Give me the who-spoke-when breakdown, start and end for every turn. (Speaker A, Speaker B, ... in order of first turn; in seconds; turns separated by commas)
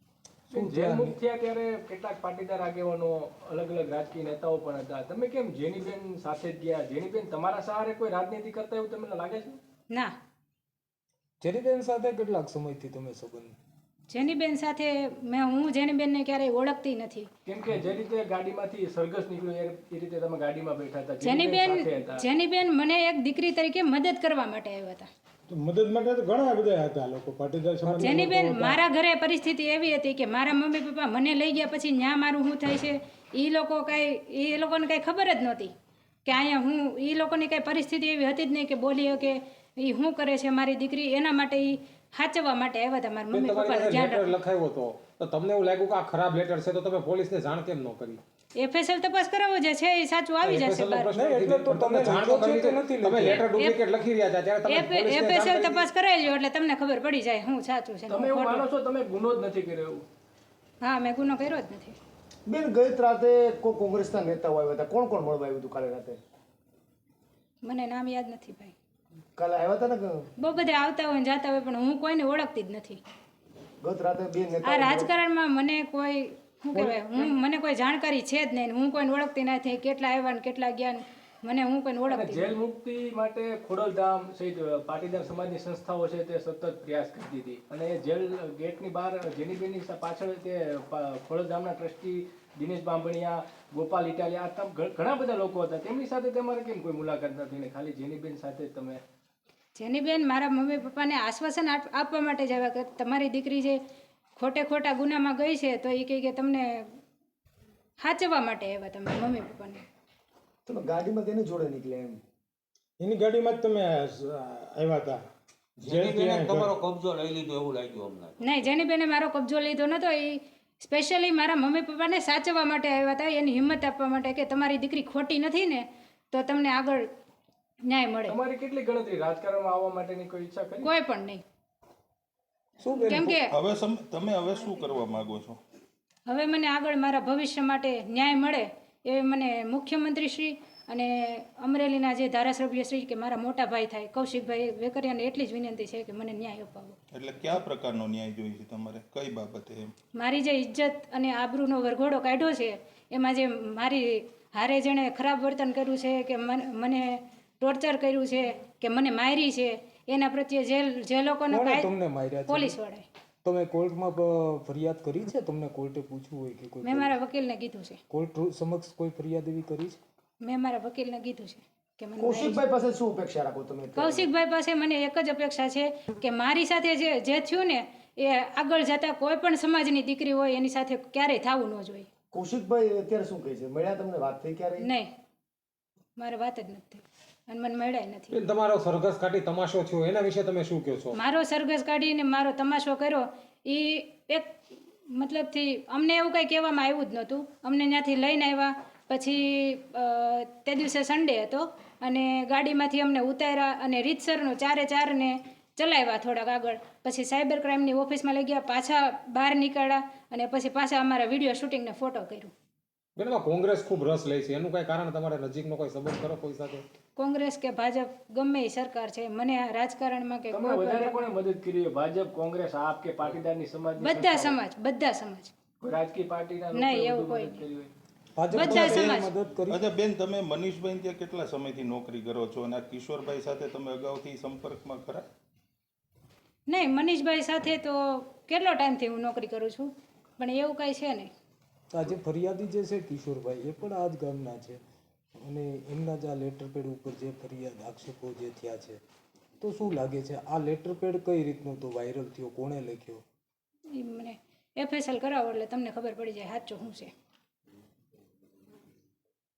Speaker A: 0.5-1.2, Speaker B: 0.5-9.6, Speaker A: 11.4-13.6, Speaker C: 14.1-17.3, Speaker B: 17.4-22.2, Speaker C: 21.2-25.1, Speaker D: 25.5-28.8, Speaker A: 27.8-28.3, Speaker C: 28.0-35.7, Speaker C: 36.2-44.3, Speaker E: 43.3-48.2, Speaker C: 48.5-51.1, Speaker E: 50.4-55.9, Speaker A: 51.1-53.4, Speaker C: 53.3-53.8, Speaker C: 54.6-58.7, Speaker B: 58.1-60.0, Speaker C: 60.8-62.0, Speaker F: 62.5-66.2, Speaker C: 67.6-68.7, Speaker F: 69.4-70.3, Speaker C: 70.4-73.0, Speaker F: 73.8-75.1, Speaker C: 74.6-82.5, Speaker B: 82.1-99.0, Speaker C: 99.8-103.8, Speaker C: 104.4-106.9, Speaker C: 108.0-109.8, Speaker F: 110.7-112.2, Speaker D: 113.0-115.2, Speaker G: 115.8-118.4, Speaker D: 115.8-116.7, Speaker C: 118.4-127.1, Speaker C: 127.8-128.4, Speaker B: 128.3-130.9, Speaker C: 130.8-131.4, Speaker A: 132.8-133.3, Speaker C: 133.0-133.5, Speaker H: 133.5-135.6, Speaker C: 136.3-147.0, Speaker H: 147.1-149.9, Speaker C: 150.2-161.9, Speaker A: 161.5-162.7, Speaker C: 162.5-163.1, Speaker A: 163.4-167.1, Speaker C: 166.8-168.0, Speaker A: 168.1-170.0, Speaker C: 170.4-172.6, Speaker F: 172.2-174.3, Speaker C: 173.9-182.1, Speaker F: 182.3-184.9, Speaker C: 184.8-185.1, Speaker C: 186.2-188.4, Speaker E: 188.3-191.2, Speaker C: 191.1-194.6, Speaker C: 195.1-212.5, Speaker E: 213.2-216.8, Speaker C: 217.2-221.2, Speaker B: 220.5-224.6, Speaker C: 224.0-225.5, Speaker B: 225.8-227.9, Speaker C: 226.7-227.6, Speaker A: 228.4-229.8, Speaker C: 228.5-229.3, Speaker H: 228.5-235.2, Speaker C: 236.7-241.3, Speaker A: 241.9-244.8, Speaker A: 245.4-249.0, Speaker A: 249.6-253.2, Speaker C: 253.9-257.1